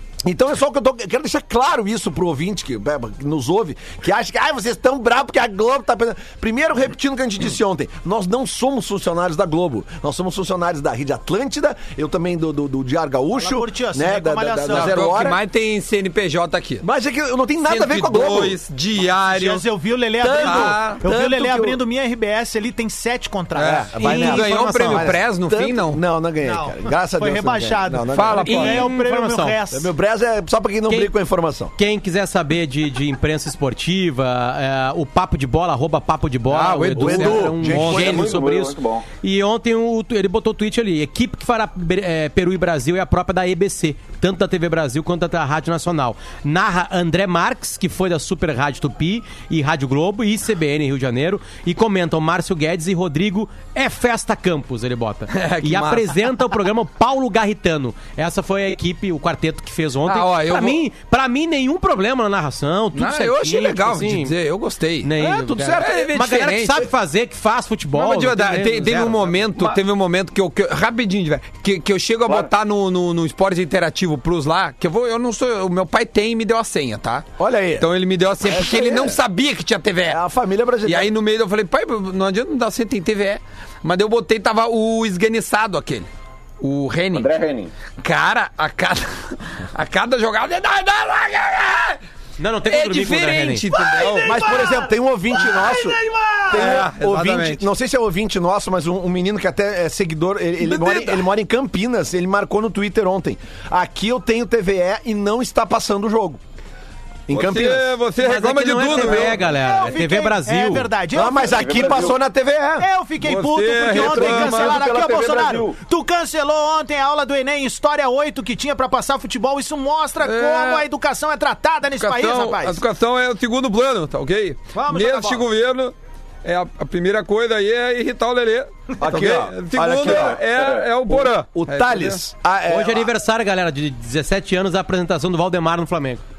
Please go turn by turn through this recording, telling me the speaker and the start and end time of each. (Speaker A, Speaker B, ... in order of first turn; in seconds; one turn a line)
Speaker A: 0.2-15.4
Speaker B: 13.3-15.0
Speaker C: 14.7-16.8
Speaker A: 16.8-18.6
Speaker C: 17.6-19.7
Speaker B: 19.3-24.3
Speaker A: 20.2-21.8
Speaker C: 20.2-21.0
Speaker C: 23.6-26.0
Speaker A: 23.6-28.5
Speaker D: 24.0-25.0
Speaker B: 26.4-29.9
Speaker C: 28.1-28.9
Speaker D: 28.4-29.6
Speaker A: 29.7-31.7
Speaker D: 30.9-31.1
Speaker D: 31.8-64.3
Speaker C: 36.5-38.2
Speaker A: 36.9-38.3
Speaker E: 37.9-39.0
Speaker C: 55.3-56.4
Speaker C: 60.0-60.8
Speaker C: 62.9-65.1
Speaker D: 65.0-69.4
Speaker A: 65.2-66.0
Speaker C: 65.8-66.9
Speaker C: 67.9-80.2
Speaker A: 77.4-77.9
Speaker A: 78.4-79.2
Speaker A: 80.1-81.1
Speaker C: 80.8-86.1
Speaker C: 86.6-87.3
Speaker E: 87.1-87.7
Speaker C: 88.0-92.0
Speaker D: 92.4-93.6
Speaker C: 92.7-94.6
Speaker B: 93.7-96.8
Speaker A: 94.1-106.4
Speaker C: 96.5-97.6
Speaker C: 100.6-101.2
Speaker A: 107.3-107.9
Speaker C: 107.3-109.4
Speaker D: 108.2-110.9
Speaker B: 108.9-112.1
Speaker A: 111.1-112.9
Speaker E: 111.5-112.2
Speaker B: 112.8-122.8
Speaker C: 113.2-114.8
Speaker E: 113.9-115.8
Speaker C: 120.2-120.9
Speaker C: 122.0-132.2
Speaker B: 124.7-125.4
Speaker A: 129.0-130.4
Speaker E: 130.0-130.8
Speaker A: 131.1-133.1
Speaker D: 132.7-136.2